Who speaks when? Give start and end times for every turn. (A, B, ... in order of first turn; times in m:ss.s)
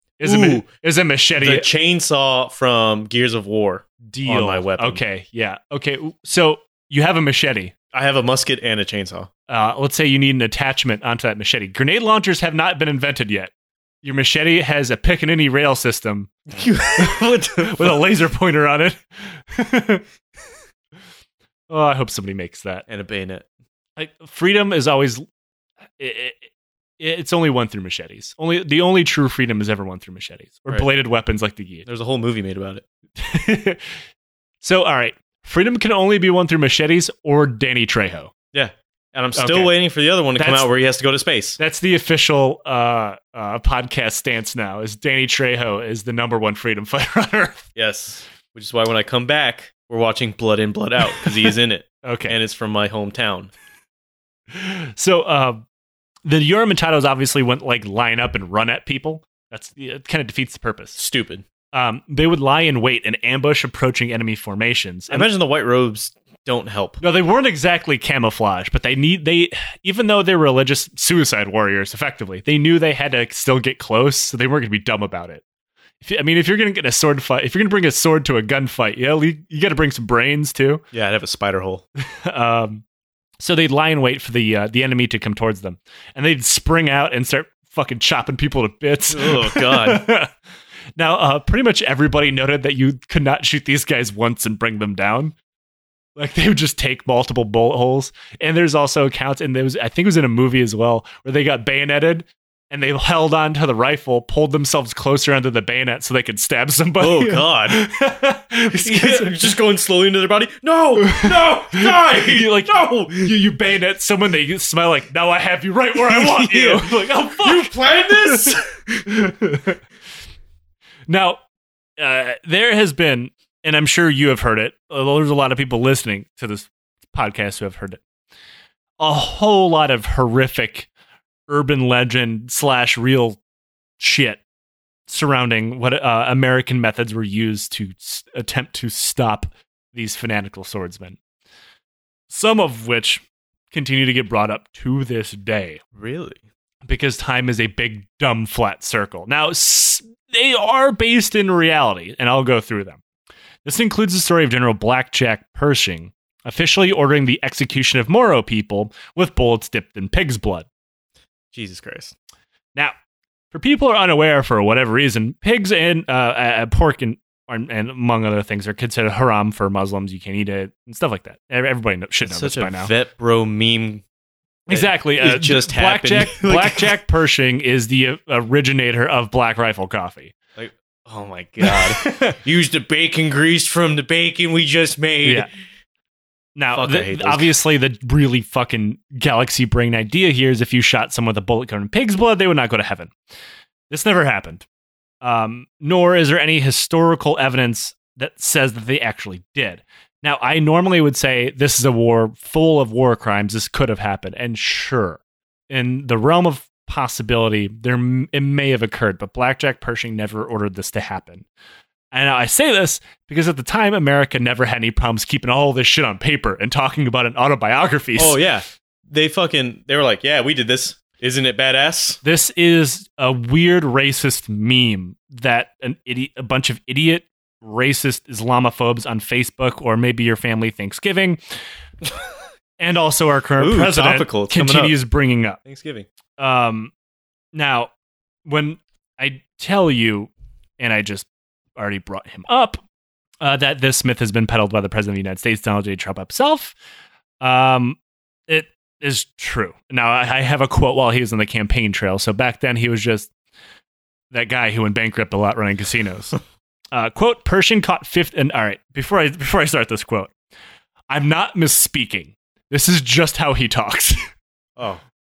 0:00.2-0:01.7 A
0:00.2-0:00.6 B
0:01.4-0:05.0 B
0:04.1-0:07.7 A
0:07.9-0:09.3 B
0:09.5-0:16.3 A
0:16.5-0:18.0 B
0:17.0-0:20.0 A
0:21.7-0:22.8 A
0:22.9-0:23.5 B
0:24.0-0:25.2 A
0:26.0-0:26.5 A
0:27.0-0:31.8 A
0:31.8-0:32.8 B
0:33.2-0:33.9 A
0:34.6-0:38.3 A
0:38.5-0:41.6 B
0:39.4-0:39.7 A
0:40.4-0:40.7 A
0:41.6-0:47.7 A
0:47.7-0:53.5 B
0:52.0-0:52.4 A
0:54.5-0:55.6 A
0:56.2-1:01.0 A
1:01.0-1:01.4 B
1:01.7-1:05.3 A
1:05.1-1:07.0 B
1:07.0-1:15.4 A
1:16.0-1:20.8 A
1:20.9-1:21.8 B
1:22.1-1:22.8 A
1:23.4-1:30.3 A
1:29.1-1:30.1 B
1:31.0-1:35.3 A
1:36.2-1:49.4 A
1:47.0-1:47.8 B
1:48.7-1:53.3 B
1:51.0-1:59.8 A
1:55.9-1:58.8 B
2:01.1-2:01.4 A
2:02.0-2:08.0 A
2:09.0-2:10.9 A
2:11.5-2:13.4 A
2:14.0-2:14.4 A
2:15.1-2:21.2 A
2:22.3-2:25.8 A
2:25.9-2:26.4 B
2:26.8-2:33.0 A
2:33.6-2:40.7 A
2:41.5-2:42.1 B
2:43.5-2:52.9 A
2:52.2-2:54.0 B
2:54.7-2:56.9 B
2:54.7-3:00.3 A
3:00.5-3:05.5 B
3:01.6-3:02.4 A
3:05.2-3:05.5 A
3:06.6-3:13.1 A
3:06.7-3:07.5 B
3:13.9-3:14.6 A
3:15.2-3:31.4 A
3:32.1-3:38.4 A
3:38.2-3:42.2 B
3:42.2-3:51.4 A
3:52.8-3:55.6 A
3:53.6-3:54.9 B
3:55.6-3:56.1 B
3:56.4-3:56.9 A
3:57.5-3:57.9 A
3:58.4-4:02.8 A
4:03.4-4:06.8 A
4:07.4-4:13.3 A
4:14.3-4:16.4 A
4:16.9-4:20.3 A
4:21.1-4:24.2 A